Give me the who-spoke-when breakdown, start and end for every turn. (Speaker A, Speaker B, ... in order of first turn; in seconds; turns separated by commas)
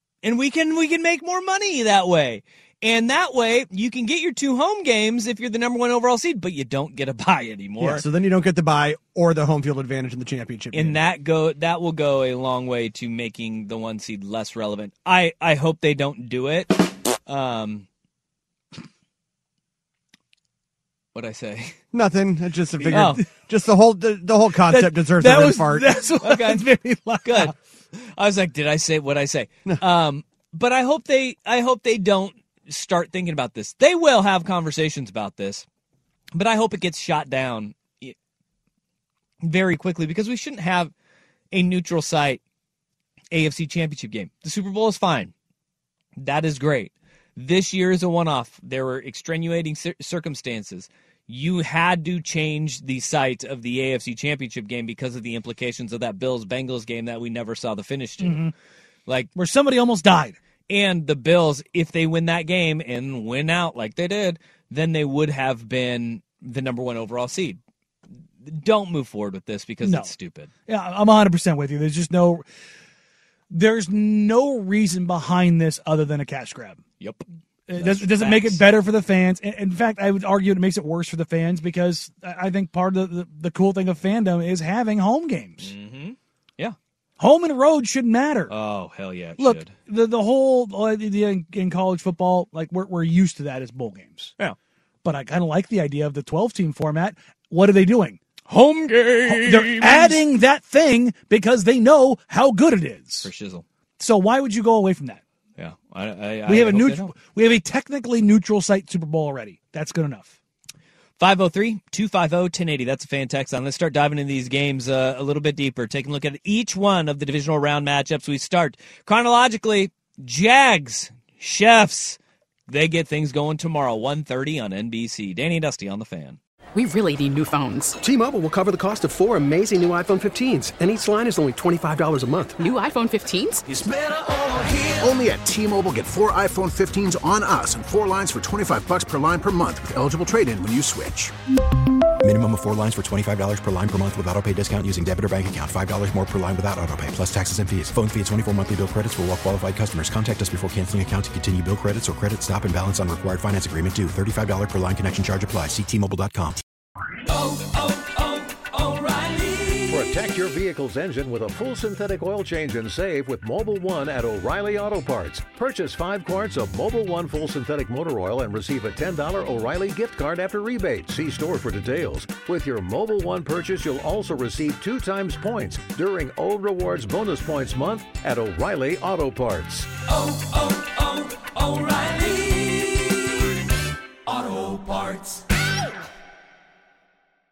Speaker A: 0.2-8.0, Speaker B: 7.8-11.0, Speaker A: 10.7-17.9, Speaker A: 21.1-21.8, Speaker B: 21.9-26.0, Speaker C: 22.9-23.2, Speaker A: 22.9-23.2, Speaker C: 24.7-27.5, Speaker A: 26.2-26.7, Speaker A: 27.2-35.6, Speaker A: 36.3-38.1, Speaker A: 39.4-40.9, Speaker A: 41.5-42.4, Speaker A: 43.3-45.3, Speaker A: 46.2-58.5, Speaker C: 58.2-58.5, Speaker C: 59.3-60.4, Speaker A: 60.7-67.6, Speaker A: 68.4-70.5, Speaker C: 69.8-70.1, Speaker C: 70.7-72.4, Speaker C: 73.5-76.8, Speaker C: 77.7-85.7, Speaker A: 77.8-78.6, Speaker A: 85.6-86.8, Speaker C: 87.2-88.5, Speaker A: 88.5-89.7, Speaker C: 89.4-94.3, Speaker C: 95.0-98.2, Speaker A: 98.5-100.2, Speaker C: 99.3-103.3, Speaker A: 103.2-103.6, Speaker C: 104.0-105.2, Speaker A: 105.6-107.1, Speaker C: 106.5-110.3, Speaker A: 111.2-126.4, Speaker D: 126.7-128.0, Speaker E: 128.0-132.6, Speaker D: 132.6-133.6, Speaker F: 134.0-135.0, Speaker G: 135.0-141.3, Speaker H: 142.2-156.6, Speaker F: 157.2-160.0, Speaker I: 159.9-179.9, Speaker F: 180.0-183.3, Speaker F: 184.2-185.4